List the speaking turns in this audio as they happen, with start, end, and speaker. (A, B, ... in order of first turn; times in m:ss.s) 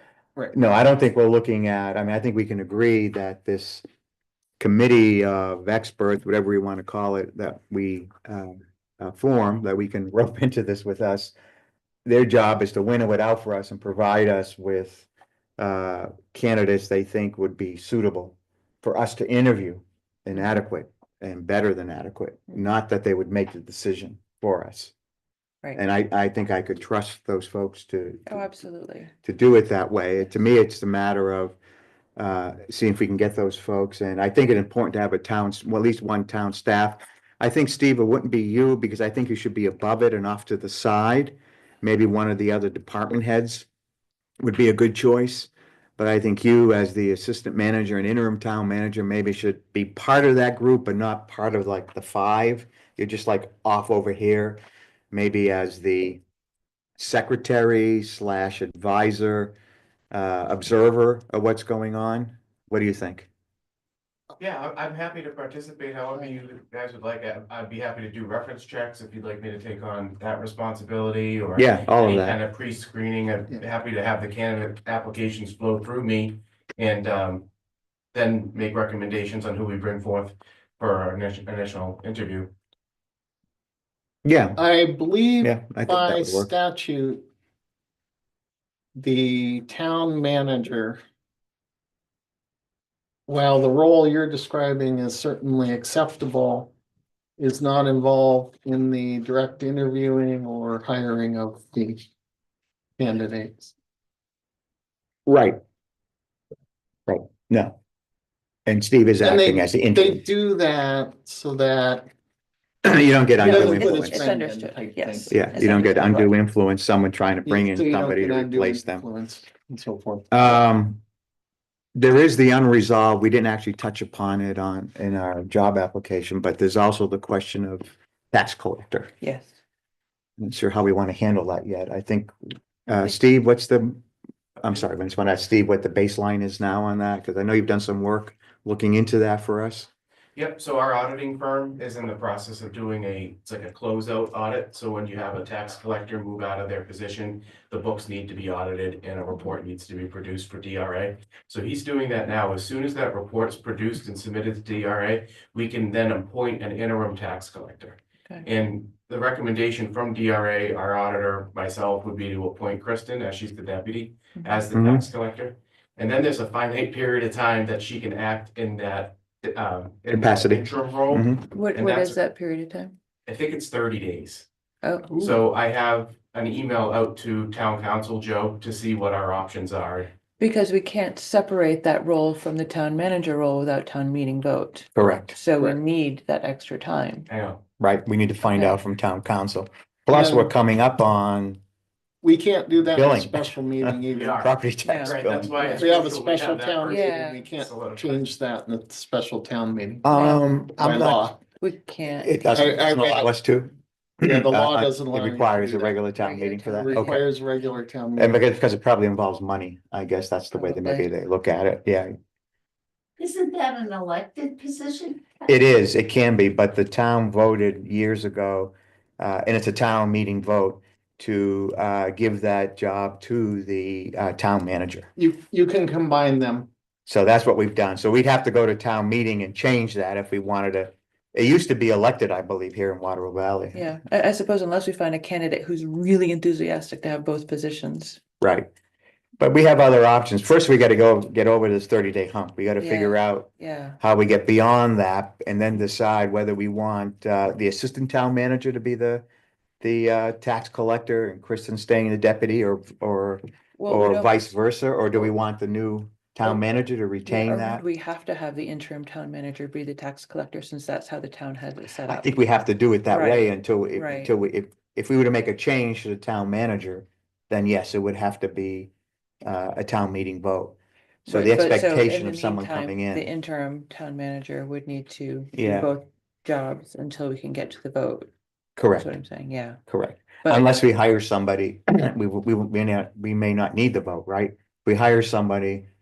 0:00.5-0:03.8 A
0:04.6-0:11.3 A
0:12.1-0:15.1 A
0:15.6-0:24.9 A
0:25.8-0:28.4 A
0:28.3-0:29.1 B
0:29.2-0:31.6 A
0:32.2-0:43.7 A
0:44.4-0:54.6 A
0:55.1-0:56.2 A
0:57.0-0:59.6 A
1:00.1-1:03.3 A
1:04.4-1:17.5 C
1:11.6-1:12.4 A
1:18.1-1:22.5 C
1:24.2-1:24.6 A
1:24.6-1:27.2 D
1:25.4-1:26.5 A
1:29.0-1:31.0 D
1:33.3-1:36.7 D
1:37.4-1:42.0 D
1:43.0-1:43.7 D
1:45.3-1:45.6 A
1:47.1-1:47.8 A
1:48.7-1:50.2 A
1:49.2-1:52.1 D
1:52.8-1:54.3 A
1:53.4-1:56.3 D
1:53.5-1:56.2 B
1:55.3-1:59.0 A
1:57.5-2:00.6 D
2:00.3-2:01.0 A
2:02.0-2:09.1 A
2:09.2-2:09.6 B
2:10.4-2:12.3 A
2:12.9-2:14.0 A
2:14.6-2:19.9 A
2:20.4-2:52.2 C
2:44.7-2:45.1 A
2:50.1-2:51.5 A
2:51.5-2:53.0 B
2:53.3-2:54.5 C
2:54.8-2:55.3 B
2:55.1-3:00.1 C
3:00.4-3:07.3 B
3:05.0-3:05.4 A
3:07.3-3:07.6 C
3:07.8-3:11.6 A
3:08.4-3:08.8 B
3:10.1-3:10.5 D
3:12.2-3:14.4 D
3:12.9-3:15.7 A
3:14.1-3:18.2 C
3:14.9-3:15.9 B
3:15.8-3:20.1 D
3:16.9-3:17.5 B
3:20.0-3:21.3 A
3:20.1-3:20.4 B
3:20.8-3:21.4 D
3:21.6-3:22.8 B
3:22.2-3:27.2 A
3:22.5-3:23.3 D
3:24.2-3:26.0 D
3:26.2-3:27.2 B
3:26.8-3:28.4 D
3:28.2-3:32.1 A
3:30.5-3:31.1 B
3:33.2-3:35.4 E
3:35.5-3:45.1 A
3:45.2-3:46.7 D
3:47.1-3:54.0 A
3:53.7-3:58.2 B
3:58.4-3:58.7 A
3:59.4-4:03.5 A
4:02.8-4:04.0 B
4:04.0-4:09.2 A
4:09.8-4:17.8 A
4:13.8-4:14.6 B
4:17.3-4:22.3 B
4:22.1-4:28.9 A
4:23.1-4:24.3 B
4:29.4-4:30.8 A
4:31.3-4:33.3 A
4:31.3-4:38.3 B
4:35.5-4:35.9 A
4:38.8-4:39.1 A
4:38.9-4:39.8 B
4:39.9-4:45.9 A
4:40.4-4:40.8 B